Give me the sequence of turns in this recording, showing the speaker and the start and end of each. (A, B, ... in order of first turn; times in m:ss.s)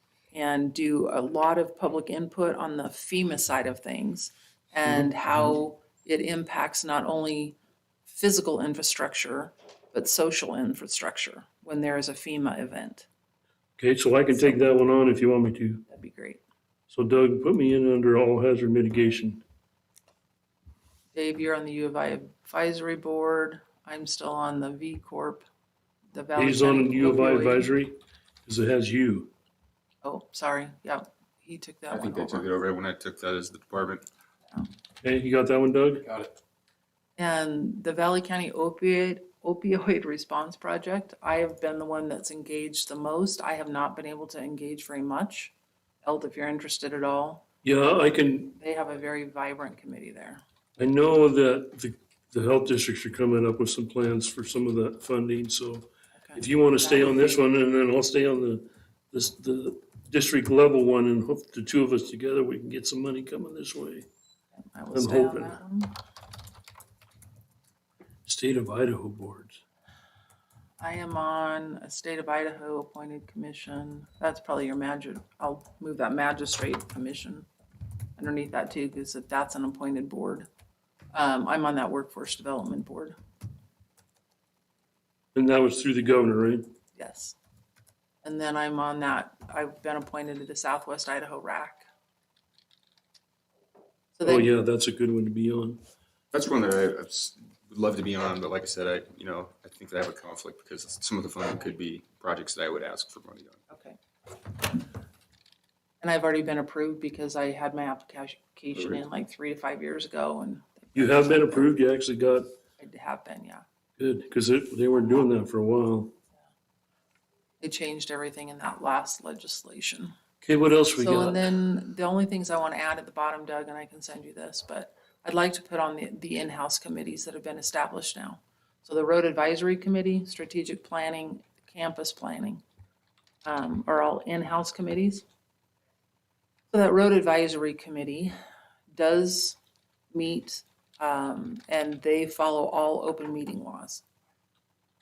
0:00.3-0:13.1 A
0:13.8-0:15.8 B
0:14.3-0:14.6 A
0:15.9-0:16.4 A
0:16.9-0:19.4 B
0:21.1-0:25.5 A
0:26.1-0:27.7 A
0:26.4-0:29.3 B
0:30.0-0:32.5 A
0:31.9-0:34.0 C
0:35.0-0:36.1 B
0:36.0-0:36.3 C
0:37.2-0:47.4 A
0:47.6-0:48.6 B
0:48.6-0:50.4 A
0:50.8-1:04.1 B
0:56.2-0:57.4 A
1:04.7-1:06.0 A
1:04.9-1:05.6 B
1:08.2-1:09.6 B
1:10.8-1:17.5 A
1:18.2-1:20.5 A
1:21.1-1:23.2 A
1:25.4-1:26.7 B
1:27.0-1:27.4 A
1:28.2-1:31.8 A
1:34.2-1:34.5 A
1:34.2-1:35.8 B
1:36.3-1:43.6 C
1:43.7-1:44.0 A
1:46.0-1:51.7 A
1:48.8-1:49.0 C
1:51.0-1:52.5 B
1:52.8-1:53.6 A
1:54.0-1:56.1 B
1:57.6-2:00.1 A
2:00.4-2:01.4 B
2:01.0-2:12.6 A
2:13.4-2:15.2 A
2:16.7-2:18.3 A
2:18.9-2:19.6 A
2:20.1-2:24.0 A